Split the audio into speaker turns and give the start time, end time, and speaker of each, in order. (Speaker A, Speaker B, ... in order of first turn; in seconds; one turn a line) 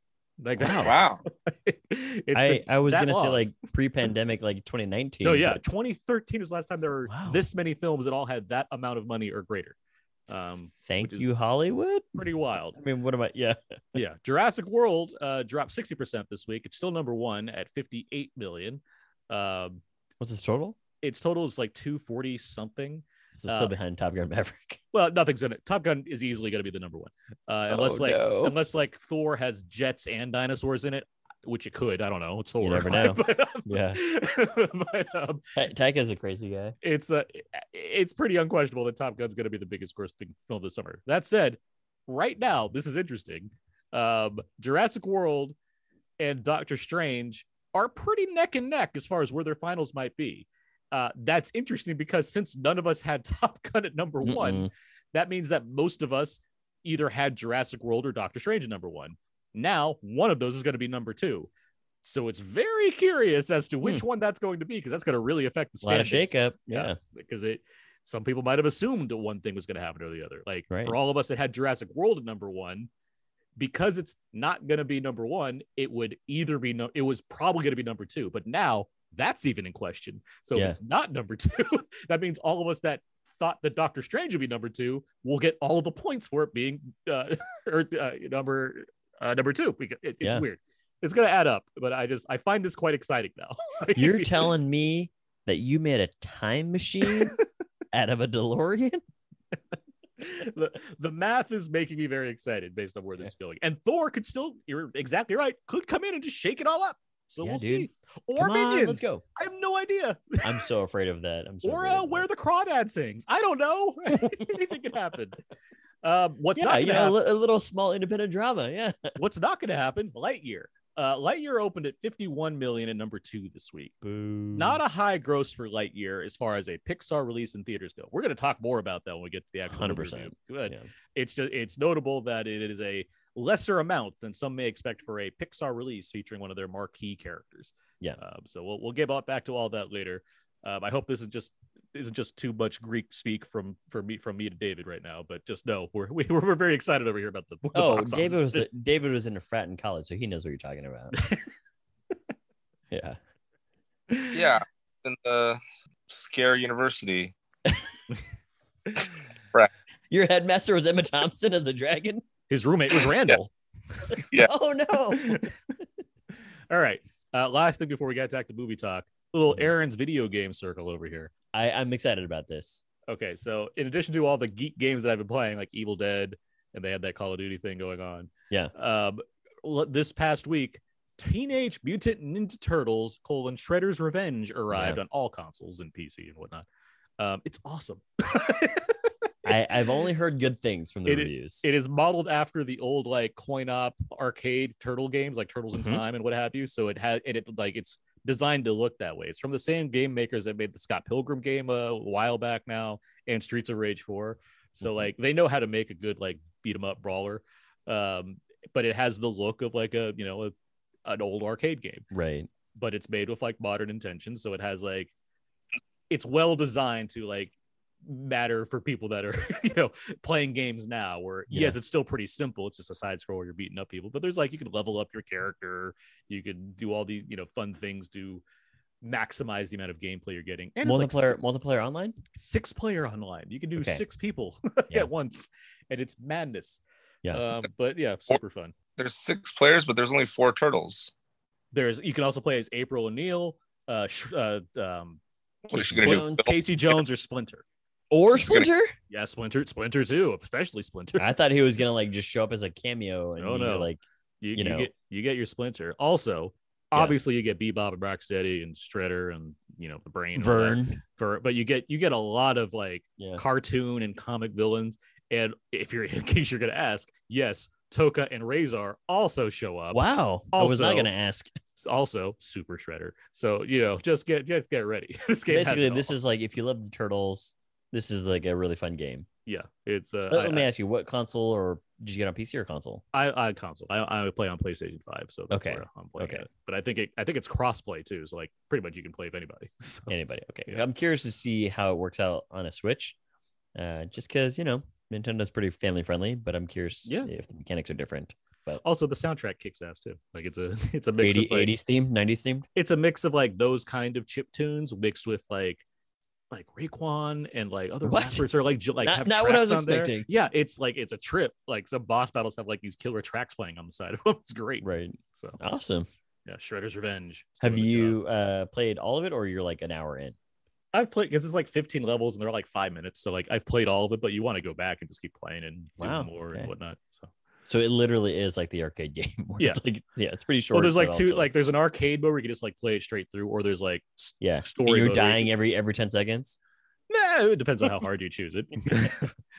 Speaker A: 0.4-3.5
Speaker B: 0.6-0.9
Speaker C: 0.8-1.2
Speaker B: 2.3-5.6
Speaker A: 5.2-9.8
Speaker B: 7.1-7.4
Speaker A: 10.3-11.3
Speaker B: 10.8-13.6
Speaker A: 12.2-12.8
Speaker A: 13.9-19.8
Speaker B: 20.2-20.8
Speaker A: 21.0-23.7
Speaker B: 23.3-24.8
Speaker A: 24.9-35.4
Speaker B: 27.7-28.5
Speaker B: 32.6-34.0
Speaker B: 35.5-36.7
Speaker A: 36.8-45.5
Speaker A: 46.2-61.5
Speaker B: 54.2-54.7
Speaker A: 62.0-72.9
Speaker B: 65.8-67.0
Speaker B: 70.7-71.0
Speaker A: 73.6-94.5
Speaker B: 94.0-97.4
Speaker B: 97.9-99.0
Speaker A: 100.2-110.6
Speaker B: 107.4-109.2
Speaker B: 110.4-112.3
Speaker A: 111.6-115.4
Speaker B: 114.2-114.7
Speaker A: 116.0-117.2
Speaker B: 116.5-119.2
Speaker A: 119.2-123.9
Speaker B: 124.0-124.8
Speaker A: 124.5-148.7
Speaker B: 129.7-130.9
Speaker B: 147.7-151.1
Speaker B: 152.9-153.2
Speaker A: 154.1-154.3
Speaker C: 154.3-157.3
Speaker B: 160.1-162.2
Speaker A: 162.5-164.2
Speaker B: 164.4-165.4
Speaker A: 165.1-165.5
Speaker A: 166.7-171.3
Speaker B: 171.5-172.8
Speaker A: 173.1-186.7
Speaker B: 184.7-185.0
Speaker A: 187.2-188.9
Speaker B: 189.4-191.7
Speaker A: 191.1-210.5
Speaker B: 195.8-196.0
Speaker B: 204.8-205.1
Speaker A: 211.0-212.0
Speaker B: 212.1-212.5
Speaker A: 212.7-215.1
Speaker A: 216.1-217.5
Speaker A: 218.0-228.4
Speaker B: 221.5-221.8
Speaker A: 229.0-231.3
Speaker B: 230.8-232.2
Speaker A: 232.3-238.7
Speaker B: 233.8-234.0
Speaker C: 239.0-241.1
Speaker A: 241.7-245.2
Speaker C: 245.7-246.5
Speaker B: 245.7-246.6
Speaker A: 245.8-247.6
Speaker B: 248.1-248.9
Speaker C: 248.3-248.7
Speaker A: 249.1-251.3
Speaker B: 251.2-254.0
Speaker A: 253.4-271.1
Speaker B: 254.5-254.9
Speaker B: 260.3-261.0
Speaker B: 269.9-271.6
Speaker A: 271.8-276.1
Speaker B: 275.5-279.3
Speaker A: 279.4-280.7
Speaker B: 280.3-283.0
Speaker A: 283.1-290.9
Speaker B: 285.5-286.4
Speaker B: 290.1-293.1
Speaker B: 293.7-298.8
Speaker A: 297.0-297.3
Speaker A: 298.8-301.7
Speaker B: 301.2-302.7
Speaker A: 302.7-305.8
Speaker A: 306.5-315.6
Speaker B: 308.0-308.5
Speaker B: 309.0-310.3
Speaker B: 314.8-316.1
Speaker A: 316.4-318.2
Speaker B: 317.6-320.4
Speaker A: 320.9-327.3
Speaker B: 326.0-326.7
Speaker B: 327.6-331.5
Speaker A: 330.7-335.5
Speaker B: 334.4-336.6
Speaker A: 337.1-339.3